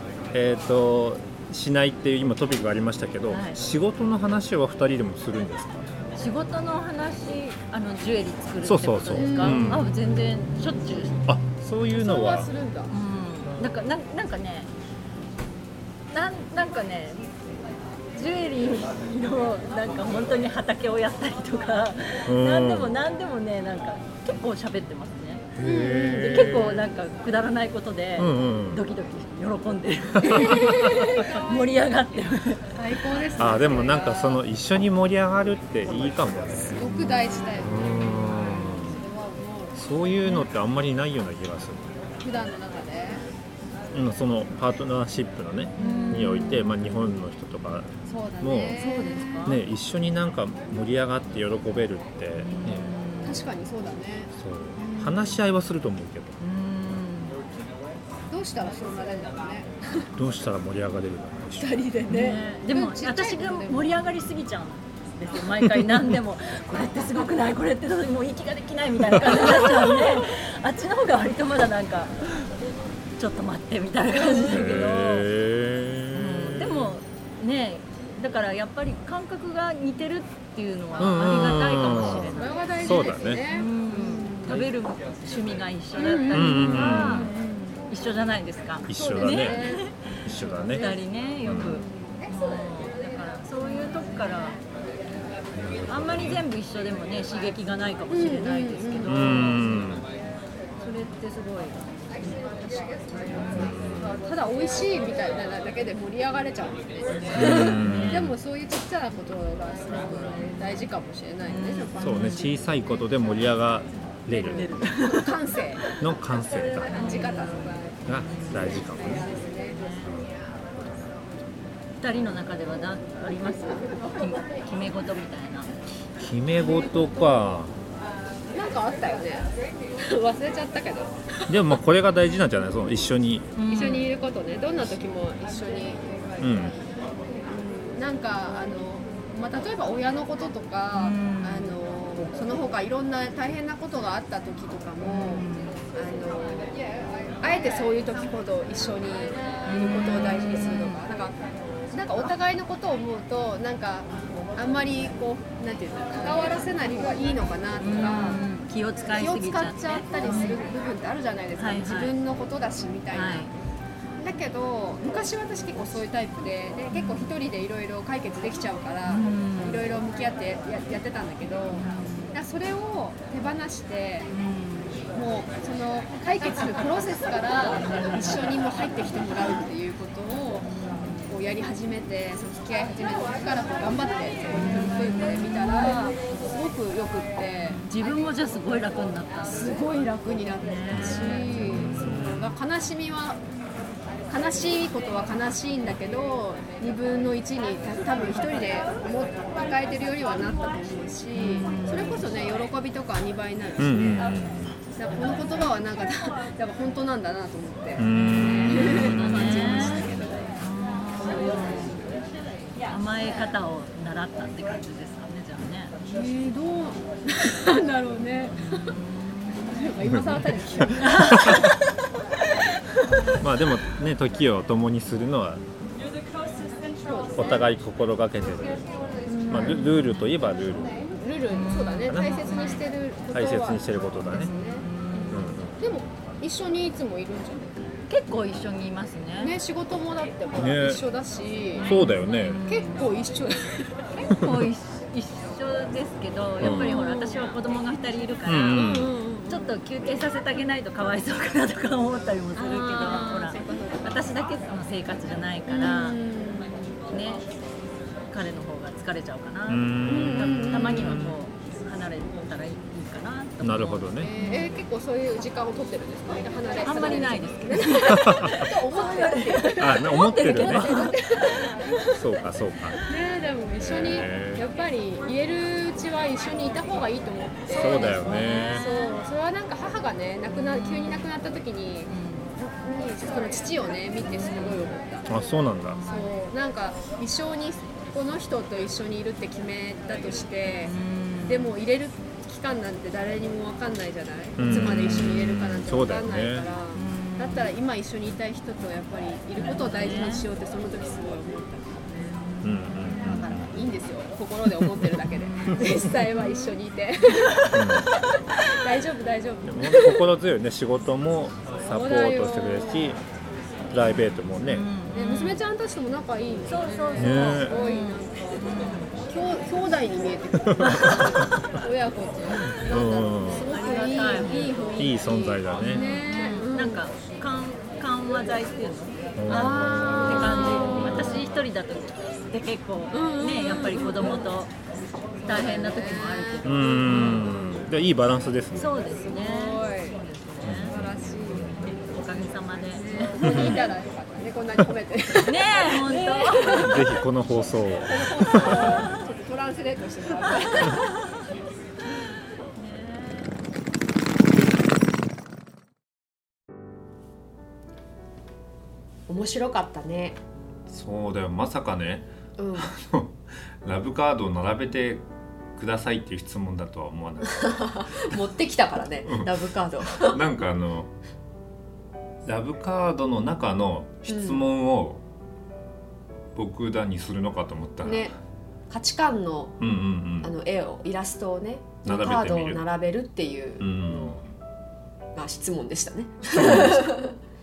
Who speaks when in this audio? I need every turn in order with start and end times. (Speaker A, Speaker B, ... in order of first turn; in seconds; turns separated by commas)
Speaker A: 0.3-5.9, Speaker B: 3.3-3.6, Speaker B: 6.2-11.2, Speaker A: 8.6-9.9, Speaker C: 9.2-9.8, Speaker A: 11.2-12.5, Speaker D: 11.9-12.9, Speaker B: 12.9-14.7, Speaker B: 16.1-17.3, Speaker B: 18.1-25.5, Speaker A: 22.3-23.0, Speaker A: 25.6-26.9, Speaker C: 25.6-26.4, Speaker D: 25.7-26.0, Speaker B: 26.1-32.6, Speaker A: 28.2-28.8, Speaker A: 30.2-31.1, Speaker D: 32.8-34.3, Speaker A: 33.4-39.0, Speaker D: 36.7-39.8, Speaker B: 36.9-37.5, Speaker A: 39.8-42.0, Speaker D: 42.2-43.2, Speaker A: 43.9-48.8, Speaker B: 45.8-46.8, Speaker D: 45.9-46.3, Speaker D: 48.1-49.5, Speaker B: 48.7-49.6, Speaker A: 49.4-52.9, Speaker B: 52.4-53.5, Speaker D: 53.2-55.2, Speaker A: 54.3-56.4, Speaker B: 56.4-57.4, Speaker D: 58.3-60.0, Speaker A: 60.1-61.8, Speaker D: 61.6-64.0, Speaker B: 62.1-72.2, Speaker B: 73.2-75.3, Speaker A: 74.3-77.0, Speaker B: 76.1-87.3, Speaker A: 81.0-83.5, Speaker D: 81.0-84.6, Speaker D: 86.0-87.8, Speaker A: 86.3-87.3, Speaker B: 87.9-94.6, Speaker A: 88.9-90.8, Speaker D: 89.0-89.8, Speaker D: 90.4-91.0, Speaker A: 91.4-91.8, Speaker D: 91.8-92.0, Speaker A: 95.5-96.4, Speaker B: 95.9-99.9, Speaker D: 98.1-99.1, Speaker A: 99.1-100.0, Speaker B: 100.8-102.4, Speaker B: 103.3-103.7, Speaker D: 103.3-112.5, Speaker A: 103.5-104.2, Speaker B: 107.3-108.3, Speaker A: 107.3-108.3, Speaker B: 111.5-112.5, Speaker A: 112.0-114.8, Speaker D: 114.4-115.9, Speaker B: 114.4-116.0, Speaker A: 116.0-117.1, Speaker B: 116.8-120.1, Speaker D: 116.8-118.0, Speaker A: 118.0-119.3, Speaker D: 118.8-119.8, Speaker A: 120.0-120.3, Speaker B: 122.0-125.7, Speaker A: 126.2-127.8, Speaker D: 128.5-129.5, Speaker D: 130.0-131.1, Speaker A: 131.5-133.5, Speaker B: 133.6-134.1, Speaker D: 133.7-136.9, Speaker A: 136.4-136.8, Speaker D: 137.5-146.8, Speaker B: 140.9-141.8, Speaker B: 145.0-145.8, Speaker D: 147.4-151.3, Speaker B: 149.7-151.0, Speaker D: 151.9-158.4, Speaker B: 157.8-160.6, Speaker D: 159.1-163.5, Speaker B: 161.6-162.2, Speaker B: 163.1-163.5, Speaker D: 164.2-174.3, Speaker B: 166.9-167.3, Speaker B: 169.1-169.9, Speaker B: 171.7-172.4, Speaker B: 174.3-175.0, Speaker D: 175.1-188.2, Speaker B: 177.7-178.6, Speaker B: 180.7-181.3, Speaker B: 184.5-186.1, Speaker B: 187.7-189.8, Speaker D: 189.4-193.4, Speaker B: 190.6-192.6, Speaker A: 191.0-192.2, Speaker D: 194.3-204.3, Speaker B: 201.3-202.2, Speaker A: 203.8-204.8, Speaker D: 204.9-210.5, Speaker A: 208.0-210.3, Speaker B: 208.4-212.0, Speaker D: 211.2-212.0, Speaker B: 212.9-215.9, Speaker D: 216.1-219.0, Speaker B: 218.6-219.9, Speaker D: 219.7-221.7, Speaker A: 220.1-220.3, Speaker B: 220.9-221.7, Speaker A: 221.3-221.6, Speaker A: 223.4-225.6, Speaker D: 227.0-227.6, Speaker A: 227.3-231.0, Speaker C: 229.3-229.8, Speaker D: 229.3-229.8, Speaker D: 230.9-234.9, Speaker B: 231.5-232.8, Speaker A: 232.1-232.5, Speaker A: 233.3-234.5, Speaker B: 234.3-235.6, Speaker A: 235.3-235.8, Speaker D: 235.8-237.9, Speaker B: 238.1-239.6, Speaker D: 239.4-242.0, Speaker A: 240.5-241.0, Speaker B: 241.7-243.2, Speaker A: 241.8-242.6, Speaker D: 242.6-244.2, Speaker B: 244.2-256.2, Speaker A: 244.3-244.7, Speaker A: 246.6-247.0, Speaker D: 247.0-247.4, Speaker A: 248.4-249.1, Speaker D: 248.8-249.7, Speaker D: 252.5-254.3, Speaker C: 255.8-257.0, Speaker B: 257.1-257.5, Speaker B: 258.3-264.8, Speaker A: 259.7-261.4, Speaker C: 260.1-261.1, Speaker A: 263.6-264.3, Speaker D: 264.2-271.9, Speaker B: 266.8-271.2, Speaker A: 268.2-268.6, Speaker A: 269.8-271.1, Speaker A: 272.1-273.0, Speaker D: 273.1-285.3, Speaker A: 273.8-274.6, Speaker A: 277.7-278.9, Speaker B: 277.8-279.1, Speaker B: 280.5-281.3, Speaker B: 282.1-282.5, Speaker B: 284.2-284.9, Speaker A: 285.3-286.0, Speaker B: 285.9-286.3, Speaker D: 286.1-302.3, Speaker B: 290.8-291.7, Speaker A: 294.6-296.7, Speaker B: 294.7-295.1, Speaker B: 296.9-297.7, Speaker B: 299.6-300.5, Speaker B: 302.5-303.4, Speaker A: 302.6-303.7, Speaker D: 303.1-310.2, Speaker B: 305.4-306.6, Speaker A: 307.7-308.1, Speaker A: 309.6-313.2, Speaker D: 311.8-313.1, Speaker A: 313.9-314.9, Speaker B: 314.7-315.6, Speaker D: 315.1-327.0, Speaker B: 316.6-319.1, Speaker A: 317.2-317.7, Speaker A: 320.7-321.2, Speaker B: 320.8-321.4, Speaker A: 322.7-323.7, Speaker B: 323.5-325.1, Speaker A: 324.9-326.1, Speaker B: 325.7-334.7, Speaker A: 329.4-331.6, Speaker D: 329.5-331.3, Speaker C: 329.8-330.9, Speaker D: 333.1-334.5, Speaker D: 335.4-337.8, Speaker B: 335.4-337.6, Speaker A: 336.6-338.9, Speaker B: 338.7-341.0, Speaker D: 339.2-340.2, Speaker A: 340.6-341.9, Speaker D: 340.9-341.8, Speaker B: 341.7-343.8, Speaker D: 342.9-347.0, Speaker A: 343.4-343.9, Speaker B: 345.4-346.9, Speaker A: 346.7-348.8, Speaker D: 348.0-351.1, Speaker B: 348.8-349.1, Speaker B: 350.5-351.3, Speaker B: 352.2-353.5, Speaker C: 359.3-360.4, Speaker A: 360.9-368.4, Speaker C: 362.6-362.9, Speaker C: 367.4-370.4, Speaker A: 369.2-371.1, Speaker A: 372.4-375.2, Speaker C: 374.3-374.7, Speaker A: 376.5-378.3, Speaker C: 378.0-378.3, Speaker C: 378.9-379.8, Speaker A: 379.8-380.5, Speaker C: 380.4-384.4, Speaker A: 382.0-382.8, Speaker A: 383.8-384.5, Speaker C: 385.3-387.4, Speaker A: 386.5-387.2